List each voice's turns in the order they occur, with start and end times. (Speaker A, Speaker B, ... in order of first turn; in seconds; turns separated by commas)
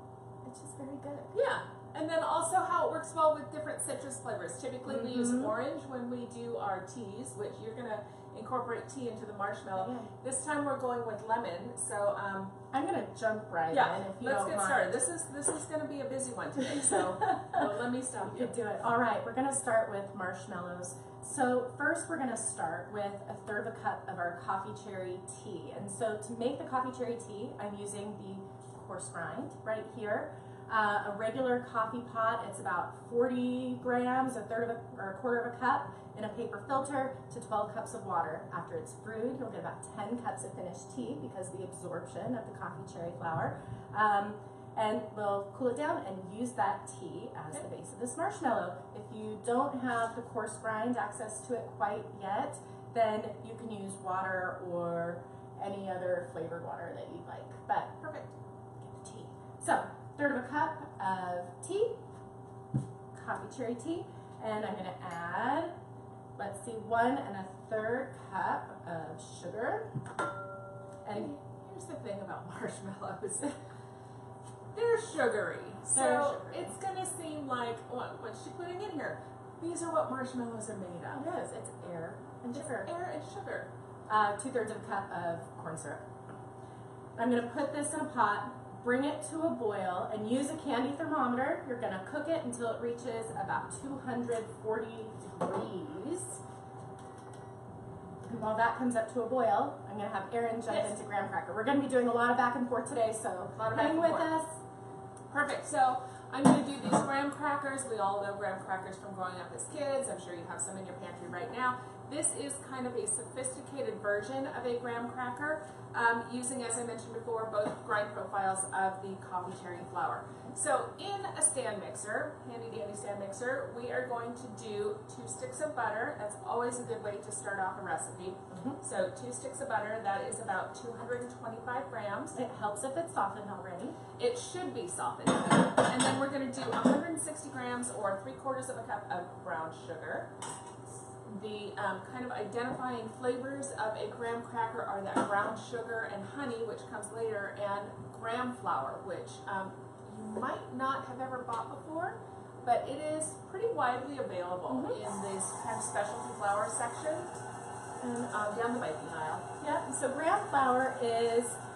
Speaker A: 0.4-1.4, Speaker B: 1.3-12.5, Speaker A: 4.9-5.5, Speaker A: 9.8-10.1, Speaker A: 12.7-14.9, Speaker B: 13.7-18.6, Speaker A: 16.9-17.7, Speaker A: 18.3-58.0, Speaker B: 58.0-58.3, Speaker A: 58.9-62.0, Speaker A: 63.1-65.7, Speaker A: 66.4-69.9, Speaker A: 71.0-71.3, Speaker B: 71.1-73.5, Speaker B: 74.7-81.2, Speaker A: 75.9-76.7, Speaker A: 81.1-82.9, Speaker B: 82.5-83.7, Speaker A: 84.1-86.1, Speaker A: 87.2-96.4, Speaker A: 98.2-104.6, Speaker B: 100.7-101.0, Speaker B: 103.5-104.3, Speaker B: 105.3-132.4, Speaker A: 128.5-128.8, Speaker A: 132.3-133.9, Speaker B: 134.2-140.3, Speaker B: 141.2-157.3, Speaker A: 154.7-155.0, Speaker B: 158.0-159.4, Speaker A: 159.6-161.6